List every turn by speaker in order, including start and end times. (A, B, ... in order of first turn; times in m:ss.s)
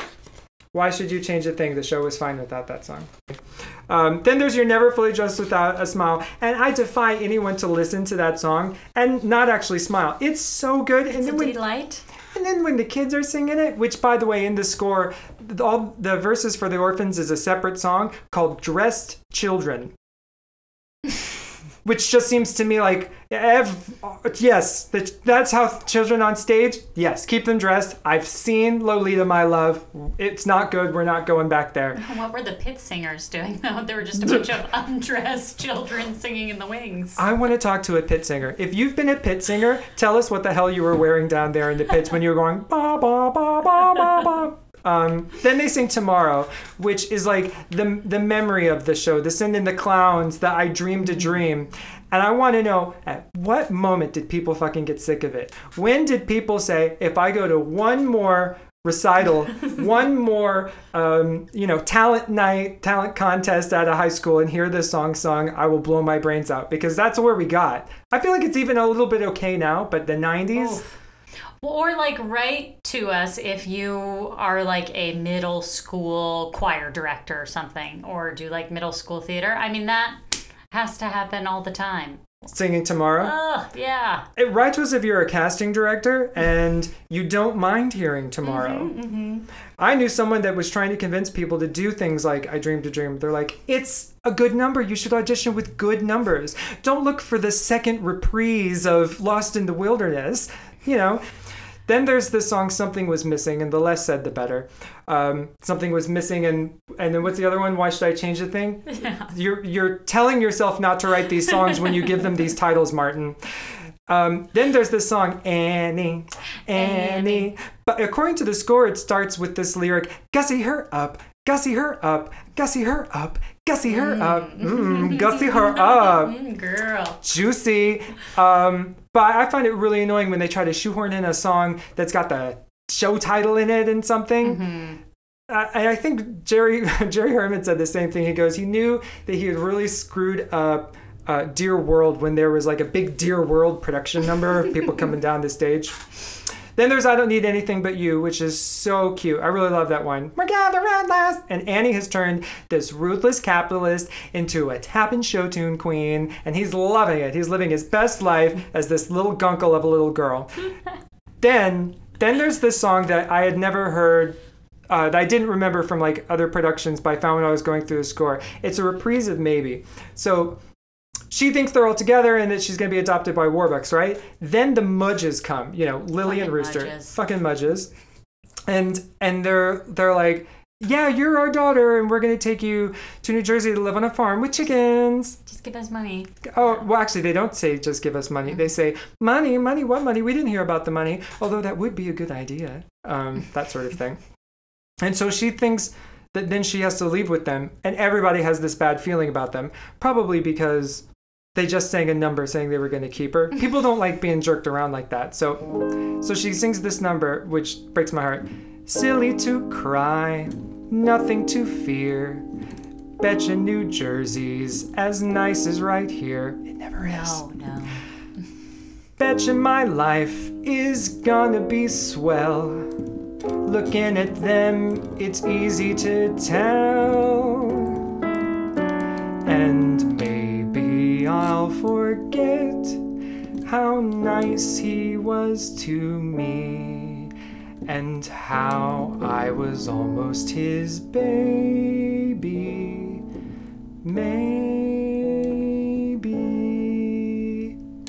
0:00.7-0:11.6 A
0:11.1-0:12.0 B
0:12.3-0:19.9 A
0:21.8-0:32.0 A
0:32.0-0:37.2 B
0:37.2-1:10.8 A
1:10.5-1:11.0 B
1:11.6-1:22.3 B
1:22.4-1:23.3 A
1:23.2-1:24.2 B
1:24.4-1:28.9 A
1:28.4-1:29.4 B
1:29.8-1:41.2 A
1:41.8-1:53.4 A
1:48.9-1:49.3 B
1:54.1-2:06.4 A
1:56.7-1:57.5 B
2:03.9-2:07.2 B
2:07.2-2:14.6 A
2:14.4-2:15.0 B
2:15.5-2:26.1 A
2:26.8-2:40.6 A
2:41.4-2:44.4 A
2:44.9-2:50.6 A
2:51.3-2:57.9 A
2:56.2-2:57.2 B
2:58.7-3:05.4 A
3:05.4-3:06.5 B
3:06.4-3:14.2 A
3:15.0-3:32.4 A
3:33.2-3:37.4 A
3:37.0-3:38.0 B
3:39.2-3:43.0 A
3:43.6-3:48.0 A
3:49.4-3:53.1 A
3:53.6-3:57.3 A
3:57.8-4:03.2 A
4:04.0-4:07.8 A